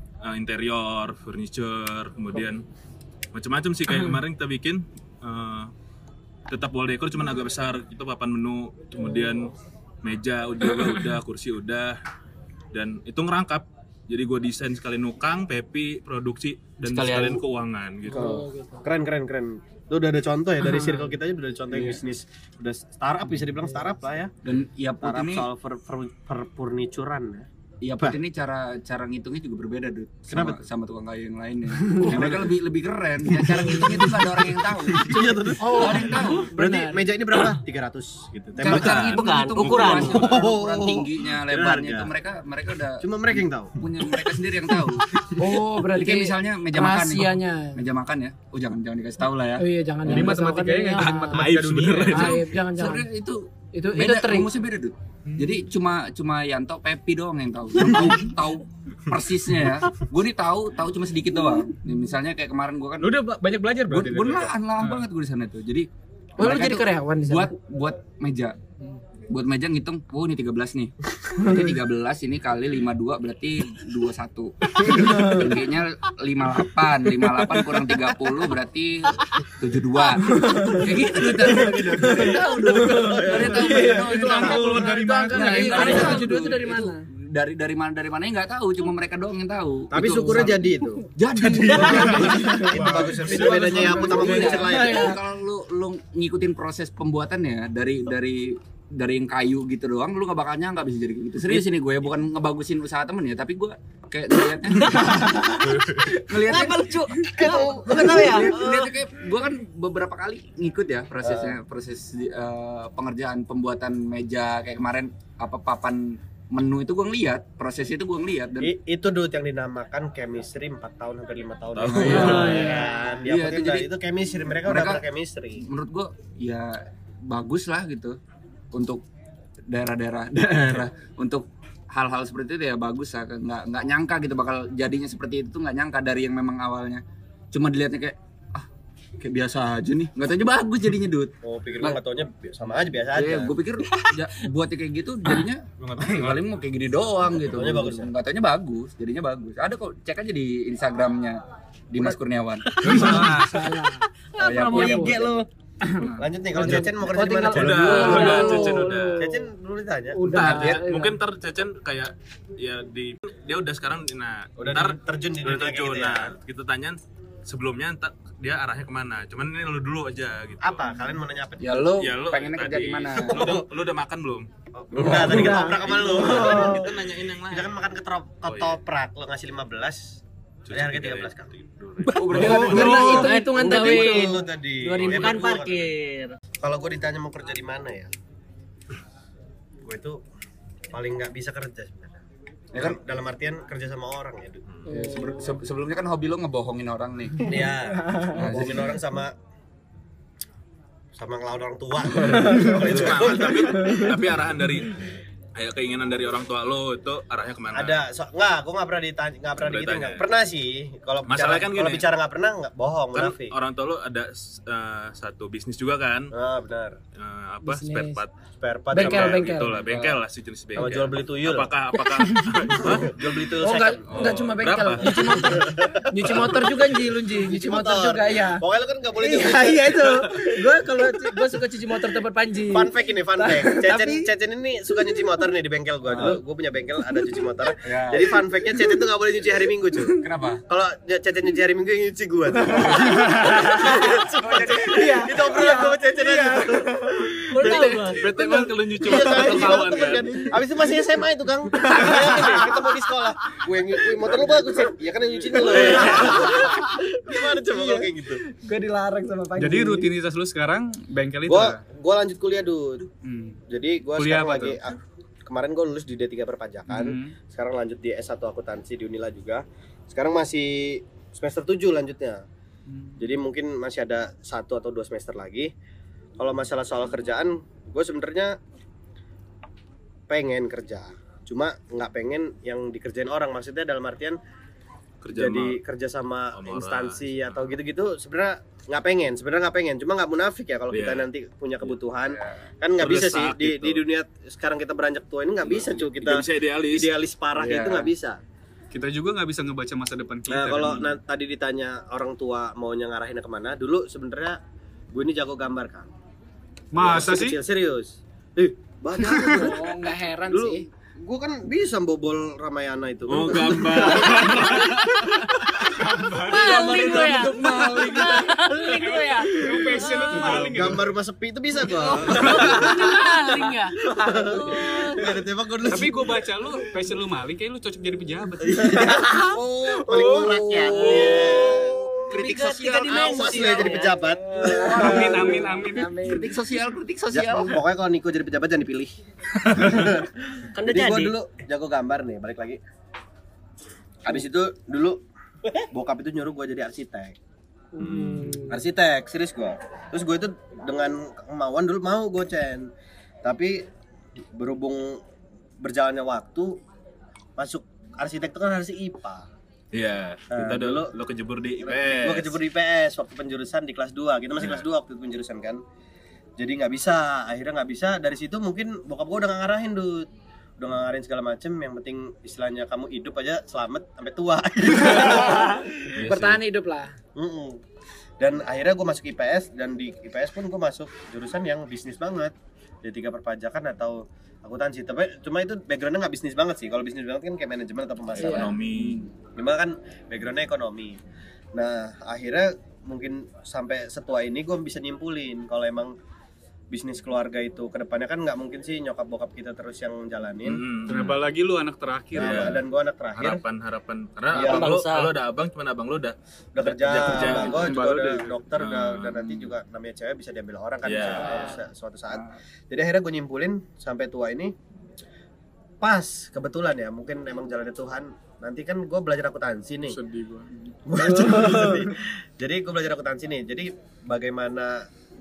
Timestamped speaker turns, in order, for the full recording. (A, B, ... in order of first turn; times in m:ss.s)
0:00.2-0:02.6 A
0:03.3-0:05.7 A
0:06.5-0:09.5 A
0:10.0-0:12.0 A
0:12.7-0:18.3 A
0:17.0-0:17.4 B
0:18.1-0:18.8 C
0:18.1-0:24.3 D
0:20.6-0:21.1 C
0:24.4-0:25.5 E
0:25.0-0:27.5 D
0:27.8-0:36.5 E
0:30.3-0:30.6 D
0:32.0-0:32.5 D
0:33.4-0:38.9 D
0:35.6-0:37.1 C
0:38.6-0:50.3 E
0:38.6-0:40.3 A
0:38.8-0:40.3 B
0:40.0-0:42.1 D
0:43.0-0:44.3 D
0:45.4-0:47.8 C
0:49.6-0:53.1 C
0:50.0-0:52.3 F
0:51.0-0:52.5 A
0:52.1-1:03.2 E
0:53.7-0:54.5 C
0:55.3-0:55.6 F
1:03.0-1:05.0 F
1:03.9-1:08.6 E
1:06.4-1:07.5 C
1:09.3-1:58.7 E
1:15.0-1:15.3 C
1:20.3-1:27.1 C
1:22.2-1:23.9 D
1:23.7-1:26.2 F
1:29.9-1:31.1 D
1:31.6-1:35.2 D
1:31.7-1:32.0 B
1:32.3-1:32.6 C
1:32.8-1:34.3 F
1:34.2-1:35.2 C
1:44.8-1:45.8 B
1:45.7-1:46.1 A
1:46.3-1:48.9 B
1:47.3-1:48.5 D
1:51.2-1:51.6 D
1:58.6-2:05.6 D
2:01.7-2:02.8 A
2:01.9-2:03.9 E
2:02.1-2:03.2 C
2:02.5-2:02.8 B
2:04.6-2:05.0 E
2:05.6-2:08.2 E
2:08.7-2:09.0 E
2:09.7-2:18.7 E
2:19.2-2:22.0 E
2:21.4-2:23.5 D
2:23.1-2:33.3 E
2:25.8-2:26.4 A
2:27.3-2:28.1 D
2:32.8-2:33.7 A
2:32.9-2:39.5 C
2:34.4-2:36.9 E
2:34.8-2:35.1 D
2:36.2-2:40.7 D
2:37.5-2:39.3 A
2:40.1-2:41.2 C
2:40.3-2:50.8 A
2:44.6-2:46.3 D
2:50.6-2:51.9 D
2:51.6-2:53.4 E
2:52.0-2:54.5 A
2:53.3-2:53.7 D
2:54.8-2:56.9 D
2:55.0-2:55.6 E
2:55.0-2:57.8 A
2:55.1-2:56.9 C
2:57.5-3:00.2 D
2:58.4-2:58.8 A
3:00.7-3:03.2 A
3:00.7-3:01.5 D
3:02.1-3:03.5 E
3:02.3-3:05.1 C
3:02.4-3:05.9 D
3:03.6-3:04.2 B
3:04.9-3:06.4 B
3:06.6-3:08.1 D
3:09.8-3:10.2 D
3:10.9-3:12.2 D
3:12.7-3:13.0 E
3:12.8-3:14.6 D
3:14.9-3:15.6 C
3:14.9-3:17.6 E
3:17.4-3:19.3 D
3:18.3-3:19.0 E
3:21.2-3:24.1 D
3:22.5-3:28.0 A
3:27.7-3:33.6 D
3:29.6-3:30.2 A
3:31.3-3:32.1 A
3:33.1-3:36.3 A
3:36.3-3:37.0 D
3:37.2-3:38.3 A
3:37.6-3:38.2 C
3:38.6-3:39.5 D
3:38.9-3:40.2 C
3:38.9-3:43.4 A
3:40.8-3:41.7 D
3:42.2-3:42.6 C
3:42.8-3:44.4 D
3:43.6-3:48.6 C
3:44.1-3:46.8 A
3:45.2-3:46.6 D
3:47.3-3:50.4 D
3:49.2-3:54.3 C
3:52.7-4:08.2 D
3:56.1-3:56.4 E
3:57.8-3:58.4 E
4:00.2-4:00.6 E
4:02.8-4:10.5 C
4:04.4-4:05.2 E
4:07.5-4:08.3 B
4:07.9-4:10.5 A
4:09.0-4:18.4 D
4:11.8-4:12.7 C
4:14.5-4:14.8 C
4:15.7-4:16.6 A
4:15.7-4:20.1 C
4:19.6-4:21.8 F
4:21.5-4:23.1 D
4:23.2-4:23.6 F
4:23.7-4:32.4 D
4:24.2-4:24.8 F
4:26.9-4:27.4 F
4:32.9-4:33.3 F
4:33.2-4:35.7 D
4:36.4-4:38.6 D
4:40.3-4:44.4 D
4:45.2-4:45.8 A
4:45.3-4:58.4 D
4:46.5-4:47.6 A
4:50.9-4:51.3 A
4:52.3-4:52.6 E
4:53.0-4:54.0 A
4:55.6-4:57.1 A
4:57.6-4:58.1 E
4:58.9-5:01.1 F
5:00.5-5:04.6 D
5:05.1-5:06.1 D
5:06.9-5:07.6 F
5:07.0-5:09.9 D
5:09.3-5:10.8 C
5:10.5-5:14.8 D
5:13.3-5:15.6 A
5:16.0-5:21.1 F
5:16.5-5:18.5 E
5:16.5-5:20.9 C
5:16.7-5:17.2 B
5:20.5-5:23.2 D
5:22.0-5:25.2 C
5:24.1-5:26.5 D
5:25.9-5:29.1 F
5:28.6-5:32.0 D
5:29.1-5:33.9 E
5:31.0-5:31.3 F
5:32.3-5:34.1 B
5:33.0-5:35.5 D
5:34.5-5:36.5 C
5:34.6-5:35.6 E
5:34.9-5:36.2 F
5:36.2-5:37.8 E
5:37.3-5:42.8 D
5:40.8-5:41.3 B
5:44.2-5:45.2 D
5:45.9-5:47.4 D
5:48.0-5:48.7 A
5:48.0-5:48.7 C
5:48.6-5:52.9 D
5:53.4-5:53.8 D
5:54.6-5:55.2 D
5:55.8-5:56.8 D
5:57.6-5:59.5 D
5:59.9-6:02.6 A
6:00.5-6:01.1 D
6:01.8-6:05.8 D
6:04.6-6:04.8 A
6:06.6-6:10.3 D
6:10.8-6:16.0 D
6:15.5-6:17.2 C
6:16.2-6:16.6 A
6:17.4-6:17.8 D
6:18.4-6:22.5 D
6:23.0-6:28.8 D
6:28.3-6:29.3 A
6:28.4-6:28.8 C
6:29.6-6:31.2 D
6:31.7-6:36.2 D
6:36.9-6:40.8 D
6:40.6-6:41.4 A
6:41.1-6:42.8 F
6:42.3-6:43.6 D
6:42.4-6:42.8 A
6:43.4-6:48.0 A
6:44.5-6:44.9 D
6:44.5-6:45.3 B
6:46.8-6:54.8 D
6:47.3-6:48.6 F
6:48.8-6:49.7 A
6:51.0-6:51.6 A
6:51.4-6:51.8 C
6:52.3-6:52.6 E
6:56.0-7:00.2 D
7:00.1-7:00.8 F
7:01.1-7:05.1 D
7:01.5-7:01.8 C